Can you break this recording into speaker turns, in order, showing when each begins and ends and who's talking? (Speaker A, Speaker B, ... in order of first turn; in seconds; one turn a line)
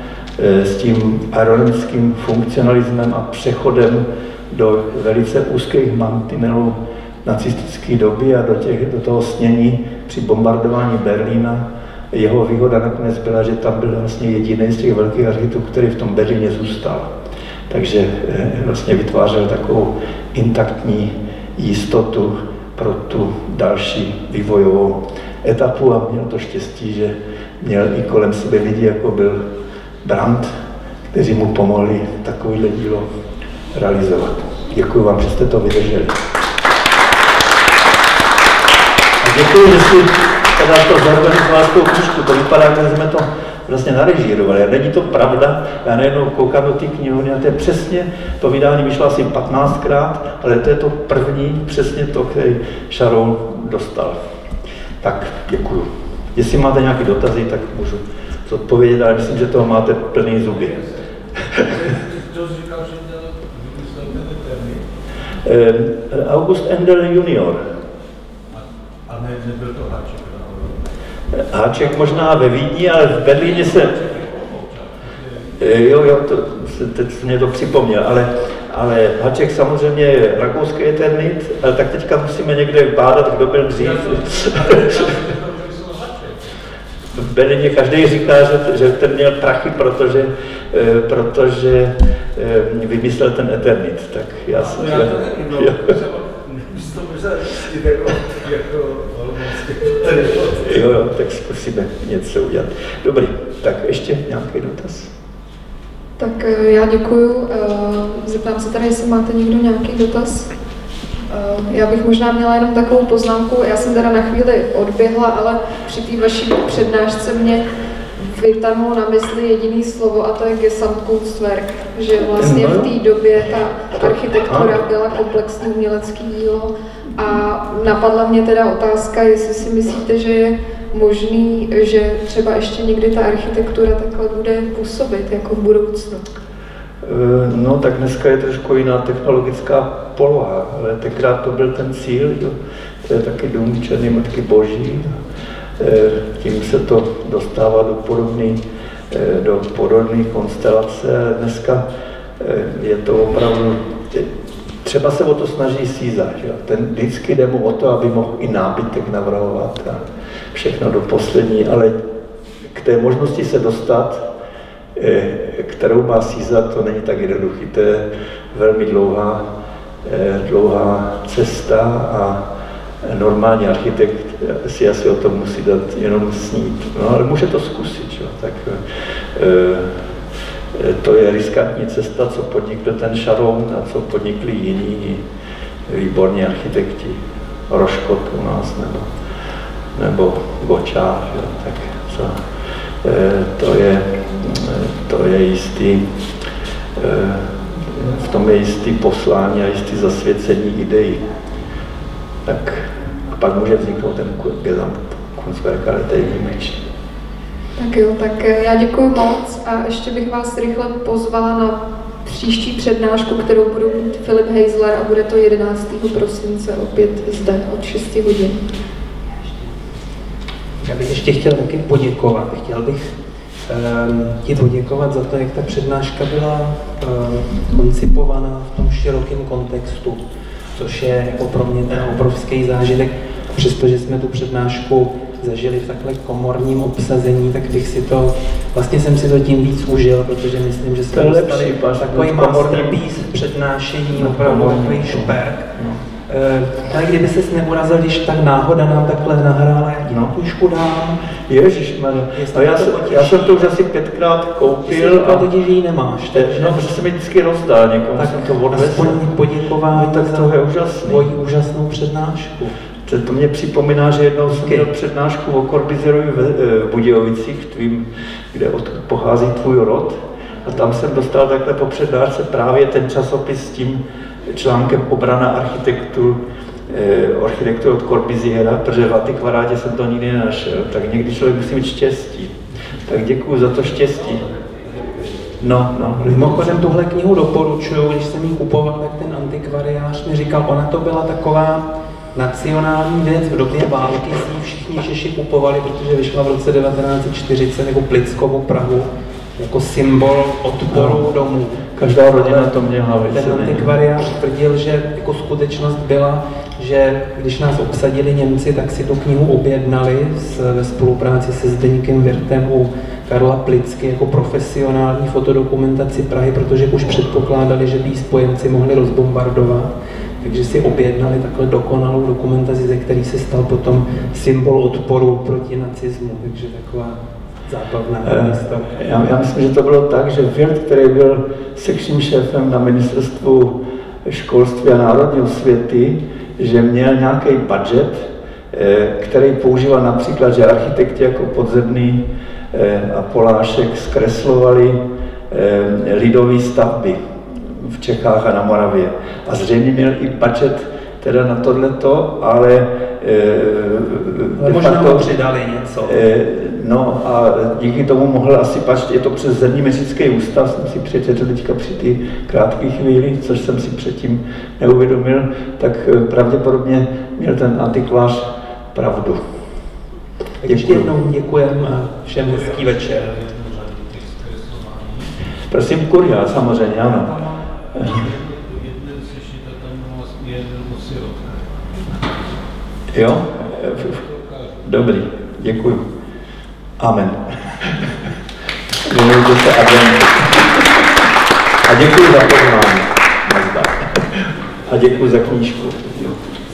Speaker A: 0.4-17.1
Speaker A: 17.7-29.4
Speaker A: 30.0-30.6
Speaker A: 31.1-33.1
Speaker A: 33.7-36.2
Speaker A: 39.2-54.2
Speaker A: 55.0-60.8
Speaker B: 60.5-60.9
Speaker B: 61.5-64.9
Speaker A: 65.4-67.6
Speaker B: 68.5-70.8
Speaker A: 71.3-74.0
Speaker B: 71.9-72.2
Speaker B: 73.4-75.5
Speaker A: 75.6-85.1
Speaker B: 83.8-86.5
Speaker A: 87.1-95.9
Speaker B: 94.6-100.9
Speaker A: 100.6-105.1
Speaker C: 106.2-110.5
Speaker C: 111.3-136.2
Speaker A: 122.4-122.9
Speaker A: 124.0-124.8
Speaker A: 137.0-145.2
Speaker A: 145.8-151.8
Speaker A: 152.4-154.3
Speaker A: 154.8-162.0
Speaker A: 162.7-164.3
Speaker A: 164.9-169.4
Speaker A: 170.0-172.4
Speaker A: 173.0-179.9
Speaker A: 180.7-185.2
Speaker A: 185.9-189.1
Speaker A: 189.9-192.4
Speaker A: 193.0-196.1
Speaker A: 197.0-201.2
Speaker A: 202.4-206.8
Speaker C: 207.8-218.6
Speaker D: 220.8-223.1
Speaker D: 223.7-230.2
Speaker D: 230.7-251.3
Speaker A: 241.1-243.0
Speaker A: 244.1-246.0
Speaker A: 250.1-250.3
Speaker A: 251.5-255.5
Speaker D: 252.3-253.6
Speaker D: 254.9-257.0
Speaker A: 256.3-259.2
Speaker D: 258.1-262.7
Speaker A: 259.9-261.2
Speaker A: 263.1-284.4
Speaker D: 264.5-264.9
Speaker A: 285.6-286.9
Speaker D: 286.2-329.0
Speaker A: 300.9-301.2
Speaker A: 301.9-303.9
Speaker A: 328.2-347.2
Speaker A: 347.7-355.3
Speaker D: 354.6-356.2
Speaker A: 356.0-369.4
Speaker D: 370.6-373.3
Speaker A: 370.6-371.1
Speaker B: 372.4-375.3
Speaker A: 375.7-377.4
Speaker B: 377.2-381.8
Speaker A: 377.9-378.2
Speaker A: 383.1-384.2
Speaker B: 383.8-384.9
Speaker A: 384.8-386.0
Speaker A: 387.0-388.0
Speaker A: 389.0-391.0
Speaker A: 391.8-396.4